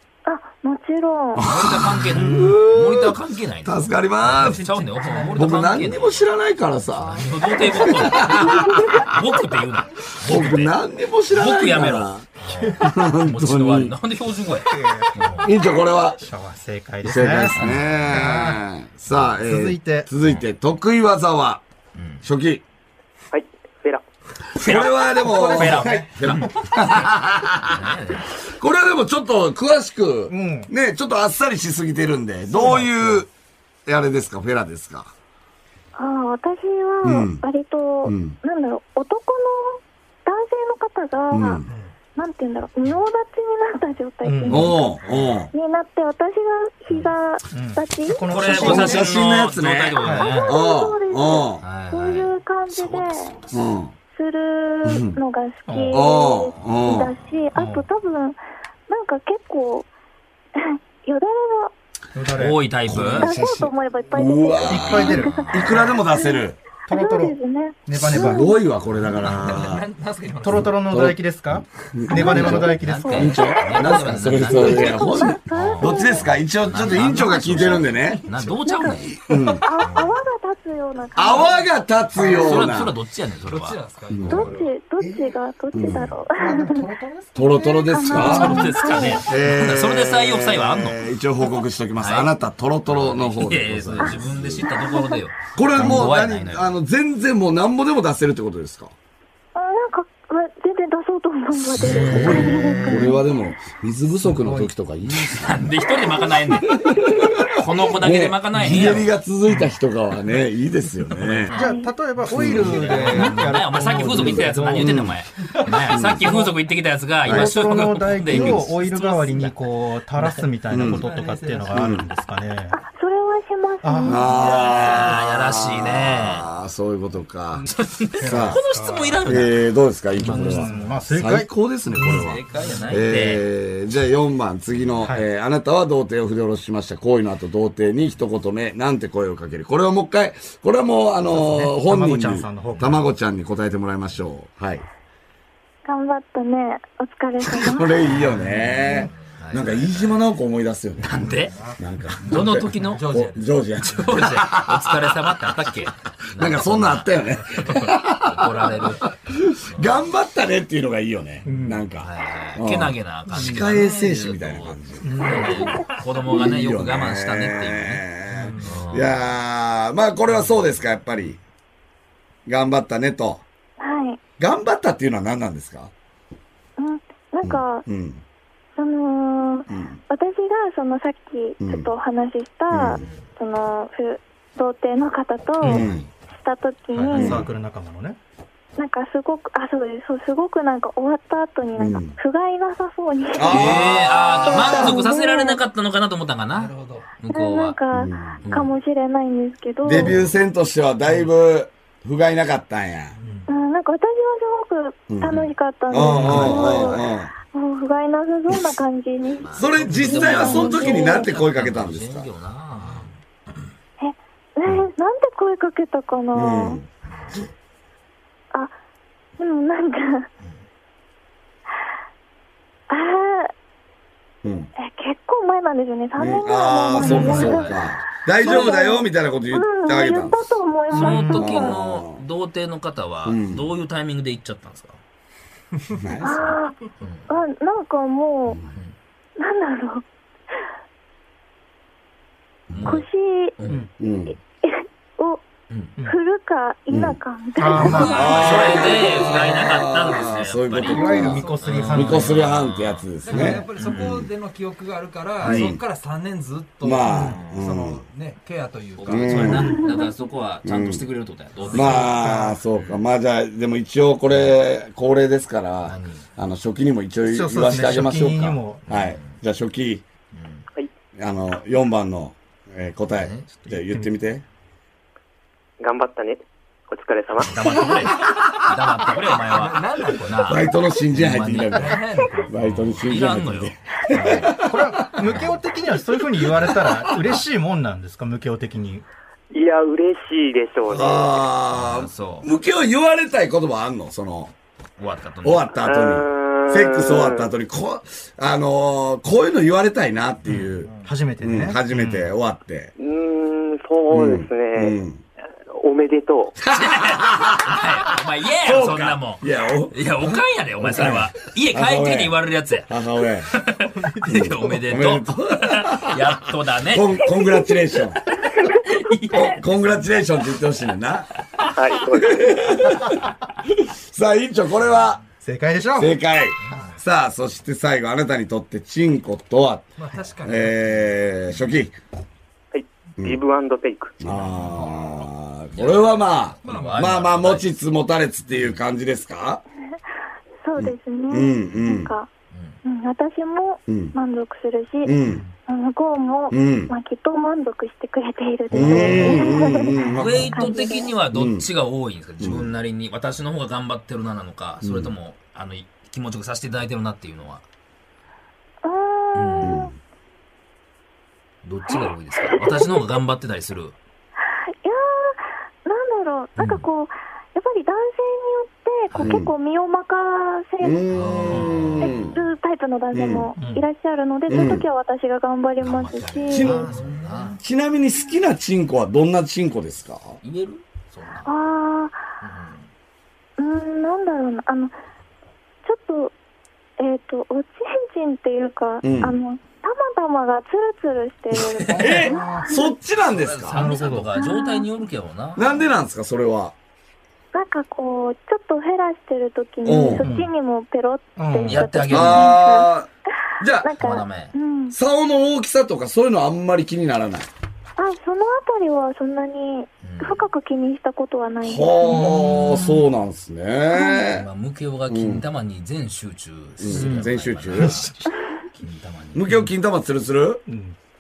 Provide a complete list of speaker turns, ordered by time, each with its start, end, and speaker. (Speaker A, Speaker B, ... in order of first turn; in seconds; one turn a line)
Speaker A: 0.3-1.5
Speaker B: 1.4-4.6
Speaker C: 1.4-6.3
Speaker D: 2.1-2.6
Speaker E: 4.2-6.0
Speaker B: 5.3-9.1
Speaker C: 7.1-10.8
Speaker A: 8.4-8.9
Speaker B: 10.2-12.3
Speaker C: 11.3-15.5
Speaker B: 12.8-13.9
Speaker D: 14.7-15.4
Speaker B: 15.4-16.2
Speaker D: 16.2-18.6
Speaker B: 17.0-21.6
Speaker C: 17.6-18.2
Speaker D: 19.4-20.1
Speaker C: 21.9-22.2
Speaker B: 22.2-22.6
Speaker F: 23.3-24.0
Speaker C: 24.6-27.1
Speaker B: 24.6-27.9
Speaker D: 25.2-26.3
Speaker C: 27.7-28.4
Speaker B: 28.5-33.3
Speaker D: 30.3-30.7
Speaker D: 32.5-33.2
Speaker B: 33.9-35.1
Speaker A: 36.0-41.6
Speaker B: 37.0-37.4
Speaker B: 38.0-38.4
Speaker B: 41.3-41.7
Speaker E: 41.6-42.0
Speaker A: 42.2-45.0
Speaker D: 44.2-44.8
Speaker B: 44.5-45.5
Speaker C: 45.1-45.4
Speaker A: 45.5-48.4
Speaker C: 46.9-47.1
Speaker D: 47.5-49.1
Speaker C: 48.3-50.6
Speaker B: 48.5-51.6
Speaker D: 50.0-50.4
Speaker A: 50.2-53.4
Speaker C: 51.6-53.7
Speaker B: 53.5-53.9
Speaker A: 54.1-59.9
Speaker B: 54.8-55.2
Speaker D: 55.7-56.0
Speaker B: 55.9-57.2
Speaker D: 57.5-57.9
Speaker A: 60.6-61.7
Speaker D: 62.1-62.6
Speaker C: 62.4-63.3
Speaker B: 62.9-66.6
Speaker A: 63.0-68.6
Speaker D: 64.7-65.9
Speaker C: 65.0-65.8
Speaker D: 66.9-68.5
Speaker B: 68.0-69.8
Speaker E: 69.2-70.8
Speaker D: 70.4-73.4
Speaker B: 70.6-71.2
Speaker B: 71.8-78.2
Speaker A: 72.1-76.3
Speaker C: 72.5-79.2
Speaker A: 78.7-79.1
Speaker B: 79.1-79.7
Speaker A: 79.6-81.7
Speaker C: 79.8-80.2
Speaker B: 81.2-82.9
Speaker E: 82.2-82.8
Speaker C: 82.4-84.5
Speaker E: 83.4-84.7
Speaker B: 84.1-84.5
Speaker A: 84.3-86.9
Speaker B: 85.7-86.2
Speaker D: 86.3-87.9
Speaker B: 87.3-94.7
Speaker A: 87.7-89.3
Speaker C: 88.1-91.0
Speaker C: 92.0-92.3
Speaker C: 92.9-96.8
Speaker A: 94.7-95.2
Speaker B: 95.5-98.9
Speaker A: 99.5-103.2
Speaker B: 101.7-105.7
Speaker C: 101.8-103.1
Speaker D: 104.3-104.7
Speaker C: 105.1-106.8
Speaker B: 106.5-111.5
Speaker C: 107.5-109.1
Speaker D: 108.6-108.9
Speaker C: 111.3-111.5
Speaker A: 111.5-111.9
Speaker D: 111.5-116.5
Speaker C: 112.3-119.6
Speaker B: 112.3-113.4
Speaker B: 114.1-115.2
Speaker B: 115.9-116.3
Speaker B: 117.2-117.5
Speaker D: 117.3-122.8
Speaker B: 118.3-118.7
Speaker B: 120.7-121.0
Speaker E: 120.8-121.9
Speaker B: 121.7-122.1
Speaker A: 122.7-124.8
Speaker D: 123.8-124.3
Speaker B: 124.1-127.7
Speaker C: 124.4-126.5
Speaker D: 127.5-129.2
Speaker C: 127.7-129.6
Speaker B: 128.2-128.6
Speaker B: 129.3-144.8
Speaker D: 130.2-132.8
Speaker C: 130.3-130.7
Speaker E: 130.6-130.9
Speaker C: 132.1-133.4
Speaker D: 141.3-143.0
Speaker A: 145.8-148.1
Speaker B: 147.4-151.2
Speaker C: 148.3-150.2
Speaker C: 151.0-151.6
Speaker B: 151.8-155.4
Speaker C: 152.2-153.1
Speaker E: 152.7-154.1
Speaker C: 153.8-159.1
Speaker B: 156.3-158.7
Speaker B: 159.3-165.4
Speaker C: 159.7-160.0
Speaker D: 161.4-161.8
Speaker C: 162.0-168.0
Speaker E: 163.4-163.7
Speaker D: 165.0-165.6
Speaker A: 165.6-165.8
Speaker B: 166.3-171.4
Speaker E: 168.3-168.8
Speaker C: 168.6-169.2
Speaker B: 172.5-173.4
Speaker A: 173.8-174.2
Speaker B: 174.4-175.9
Speaker A: 176.8-177.9
Speaker B: 177.4-178.2
Speaker A: 178.8-187.4
Speaker B: 179.7-180.0
Speaker B: 181.6-181.9
Speaker B: 182.7-183.0
Speaker D: 185.6-185.9
Speaker B: 185.7-186.1
Speaker D: 187.0-188.2
Speaker B: 187.1-187.4
Speaker A: 188.8-193.9
Speaker B: 191.8-192.2
Speaker B: 193.4-195.0
Speaker C: 193.5-197.8
Speaker A: 194.4-195.6
Speaker E: 196.5-197.2
Speaker A: 197.3-200.1
Speaker B: 197.9-198.4
Speaker C: 198.4-198.7
Speaker B: 199.8-203.2
Speaker E: 203.2-203.5
Speaker A: 203.5-211.3
Speaker B: 205.1-205.4
Speaker B: 205.9-207.3
Speaker C: 206.2-207.0
Speaker E: 206.2-206.5
Speaker C: 209.4-213.1
Speaker B: 209.5-212.3
Speaker E: 212.8-213.2
Speaker A: 214.0-216.8
Speaker B: 216.3-216.9
Speaker A: 219.4-220.3
Speaker A: 222.9-223.5
Speaker B: 224.4-224.7
Speaker A: 224.8-231.8
Speaker B: 226.2-230.6
Speaker C: 227.0-227.9
Speaker D: 227.0-227.4
Speaker C: 230.9-235.0
Speaker D: 230.9-231.4
Speaker B: 231.3-232.2
Speaker B: 233.2-233.7
Speaker B: 236.0-236.6
Speaker A: 236.2-238.6
Speaker C: 237.0-237.3
Speaker A: 239.4-240.1
Speaker B: 242.7-243.0
Speaker C: 242.7-243.1
Speaker A: 242.8-243.6
Speaker C: 243.6-243.8
Speaker B: 244.0-244.3
Speaker A: 244.3-245.5
Speaker C: 245.7-245.9
Speaker A: 246.0-249.3
Speaker B: 246.9-247.2
Speaker D: 247.6-248.6
Speaker C: 247.7-253.1
Speaker B: 247.8-254.3
Speaker D: 250.9-252.4
Speaker E: 251.4-252.1
Speaker E: 253.2-259.8
Speaker D: 253.3-253.7
Speaker C: 253.8-254.1
Speaker B: 255.4-255.8
Speaker B: 256.8-258.0
Speaker D: 257.1-257.4
Speaker C: 257.2-257.6
Speaker C: 259.0-262.1
Speaker B: 259.1-259.8
Speaker A: 259.8-260.1
Speaker B: 260.6-261.1
Speaker E: 261.6-262.1
Speaker D: 261.7-262.6
Speaker B: 261.7-270.0
Speaker C: 262.7-263.0
Speaker C: 265.9-266.3
Speaker D: 267.2-268.9
Speaker C: 268.9-269.4
Speaker C: 270.3-270.7
Speaker B: 271.2-274.4
Speaker C: 273.1-273.5
Speaker D: 273.7-274.1
Speaker F: 275.8-277.8
Speaker C: 277.4-284.6
Speaker E: 279.4-280.7
Speaker B: 280.5-285.4
Speaker E: 281.7-282.6
Speaker D: 284.5-289.1
Speaker C: 285.2-285.6
Speaker B: 286.6-287.0
Speaker F: 289.5-291.4
Speaker B: 290.9-294.5
Speaker C: 291.7-292.5
Speaker C: 295.0-295.7
Speaker B: 295.4-302.9
Speaker F: 295.8-297.5
Speaker C: 300.4-300.8
Speaker E: 300.9-301.1
Speaker D: 301.0-302.3
Speaker F: 303.0-305.0
Speaker B: 304.1-305.2
Speaker F: 305.7-306.6
Speaker B: 306.6-307.9
Speaker C: 306.7-312.9
Speaker B: 308.6-312.4
Speaker B: 312.9-313.5
Speaker C: 313.5-317.4
Speaker D: 314.1-314.5
Speaker B: 314.3-318.2
Speaker C: 318.4-319.6
Speaker B: 319.3-321.3
Speaker F: 321.7-322.6
Speaker B: 322.2-325.2
Speaker D: 325.4-326.2
Speaker B: 326.0-329.9
Speaker E: 326.6-326.9
Speaker E: 330.0-330.9
Speaker B: 330.4-332.0
Speaker F: 332.7-334.2
Speaker B: 334.2-339.6
Speaker C: 334.3-337.7
Speaker E: 336.6-337.3
Speaker A: 340.6-342.3
Speaker B: 340.8-342.1
Speaker C: 342.5-342.8
Speaker A: 342.8-345.2
Speaker B: 343.9-344.1
Speaker B: 345.0-345.4
Speaker A: 345.7-350.0
Speaker B: 346.5-346.9
Speaker B: 348.7-350.7
Speaker C: 348.8-349.6
Speaker C: 350.1-357.6
Speaker A: 350.5-351.1
Speaker B: 351.3-351.7
Speaker B: 352.4-352.7
Speaker B: 354.8-355.1
Speaker A: 358.8-359.9
Speaker C: 359.4-359.8
Speaker B: 359.6-359.9
Speaker C: 361.6-364.0
Speaker A: 361.9-363.0
Speaker A: 364.4-371.1
Speaker C: 366.6-366.9
Speaker C: 369.1-369.4
Speaker B: 369.2-369.5
Speaker B: 370.8-372.4
Speaker C: 371.1-372.4
Speaker A: 372.0-376.8
Speaker B: 373.1-373.5
Speaker D: 373.6-373.9
Speaker B: 374.5-374.9
Speaker C: 375.8-377.6
Speaker B: 376.5-376.9
Speaker E: 376.8-377.6
Speaker B: 377.6-380.4
Speaker C: 380.4-381.6
Speaker A: 381.4-382.2
Speaker C: 382.4-382.9
Speaker A: 383.6-384.9
Speaker A: 385.8-386.3
Speaker A: 387.0-392.9
Speaker B: 389.0-389.4
Speaker C: 391.5-392.3
Speaker D: 391.9-392.8
Speaker B: 392.0-393.8
Speaker C: 393.2-395.7
Speaker D: 393.7-394.3
Speaker A: 394.4-394.9
Speaker B: 395.6-396.7
Speaker A: 397.5-402.9
Speaker B: 399.8-400.3
Speaker D: 400.2-400.5
Speaker D: 401.4-401.9
Speaker C: 401.7-402.6
Speaker B: 402.1-403.1
Speaker B: 403.6-403.9
Speaker A: 403.8-405.0
Speaker C: 404.0-404.6
Speaker B: 404.9-407.5
Speaker A: 408.0-413.0
Speaker C: 410.0-410.5
Speaker B: 411.6-414.5
Speaker C: 412.1-412.9
Speaker A: 413.9-414.3
Speaker C: 414.3-418.1
Speaker B: 415.1-415.4
Speaker B: 416.8-418.1
Speaker D: 416.9-418.3
Speaker C: 418.8-419.6
Speaker B: 419.3-420.6
Speaker D: 420.7-421.0